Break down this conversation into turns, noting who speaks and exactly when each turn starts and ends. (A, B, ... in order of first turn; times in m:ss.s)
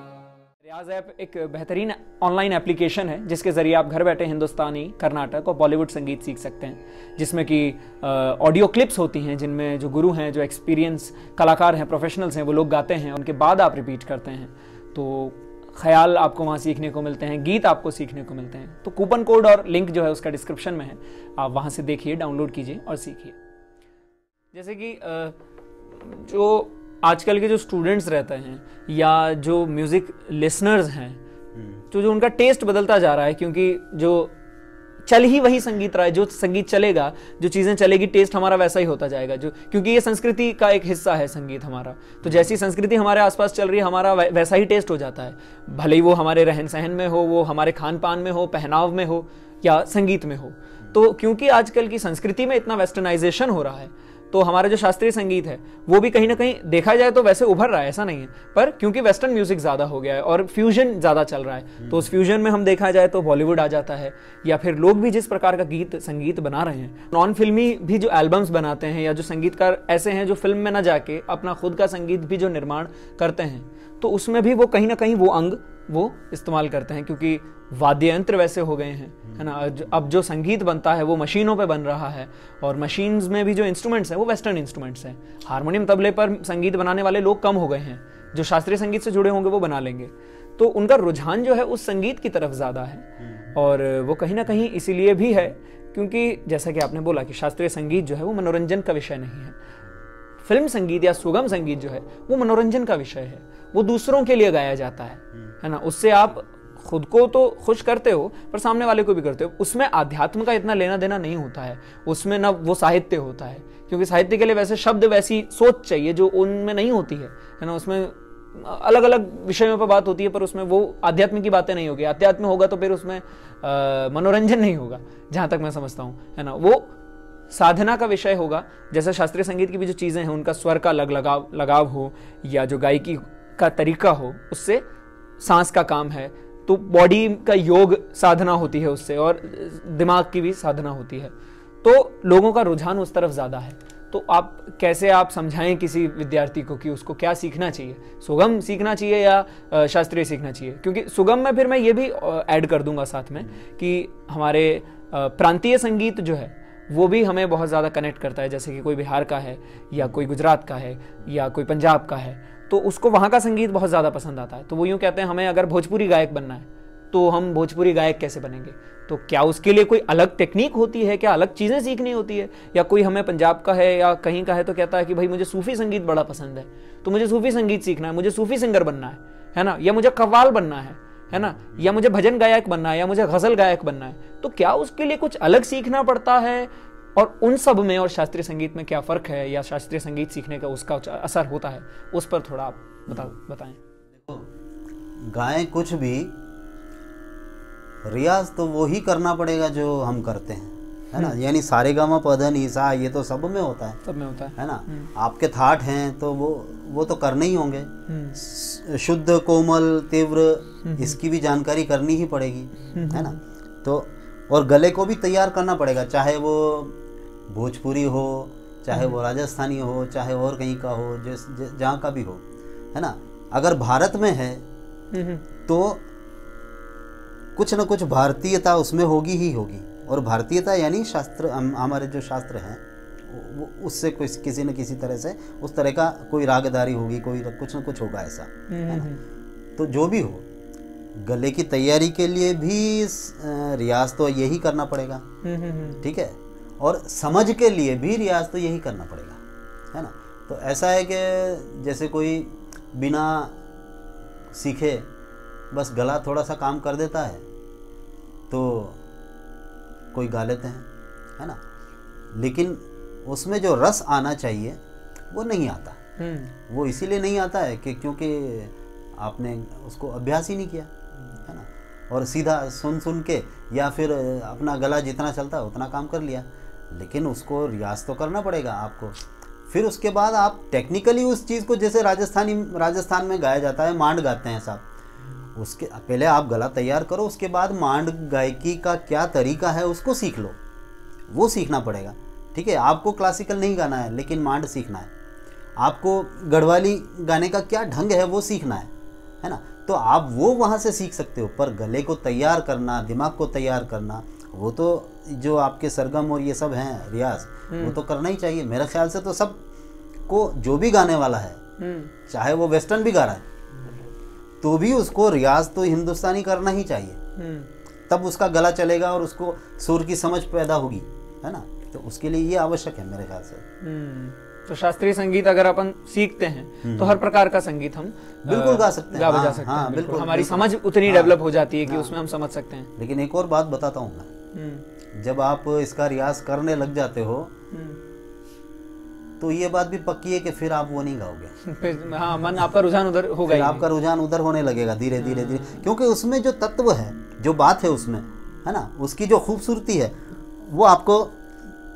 0:00.6-0:23.4 A
0:24.5-0:25.4 A
0:26.0-0:31.2 A
0:31.6-0:31.8 B
0:31.9-0:34.3 A
0:35.0-1:39.6 A
0:42.2-0:42.5 B
1:01.8-1:02.1 B
1:40.4-2:06.9 A
2:07.5-2:14.8 A
2:15.4-3:13.8 A
3:01.3-3:01.9 B
3:14.2-3:14.5 B
3:15.2-3:16.4 B
3:18.1-3:24.0 B
3:24.0-3:25.1 A
3:24.6-3:37.0 B
3:28.1-3:28.4 A
3:30.8-3:31.2 A
3:32.9-3:33.4 A
3:37.5-3:42.4 B
3:38.9-3:39.2 A
3:42.9-3:44.6 B
3:45.1-3:45.4 A
3:45.7-3:46.0 B
3:47.6-3:59.1 B
3:58.7-3:59.2 A
3:59.8-4:00.5 B
4:01.2-4:05.2 B
4:05.4-4:06.0 A
4:06.0-4:09.4 B
4:09.9-4:13.6 B
4:14.5-4:15.1 B
4:15.7-4:17.4 B
4:18.5-4:19.0 B
4:20.1-4:20.9 B
4:22.3-4:24.8 B
4:25.3-4:26.0 B
4:26.2-4:26.5 A
4:26.7-4:30.9 B
4:31.4-4:39.2 B
4:39.7-4:44.8 B
4:45.6-4:50.6 B
4:51.3-4:55.1 B
4:55.8-4:58.9 B
4:59.4-5:09.6 B
5:07.7-5:08.0 A
5:10.3-5:11.6 B
5:11.8-5:12.1 A
5:12.3-5:13.4 B
5:14.6-5:17.2 B
5:17.4-5:17.7 A
5:18.1-5:23.6 B
5:23.8-5:32.9 A
5:26.8-5:27.2 B
5:28.4-5:32.1 B
5:33.0-5:34.3 B
5:34.5-5:34.8 A
5:35.2-5:37.5 B
5:37.7-5:38.0 A
5:39.4-5:41.5 B
5:41.6-5:43.9 A
5:43.5-5:51.4 B
5:45.2-5:45.8 A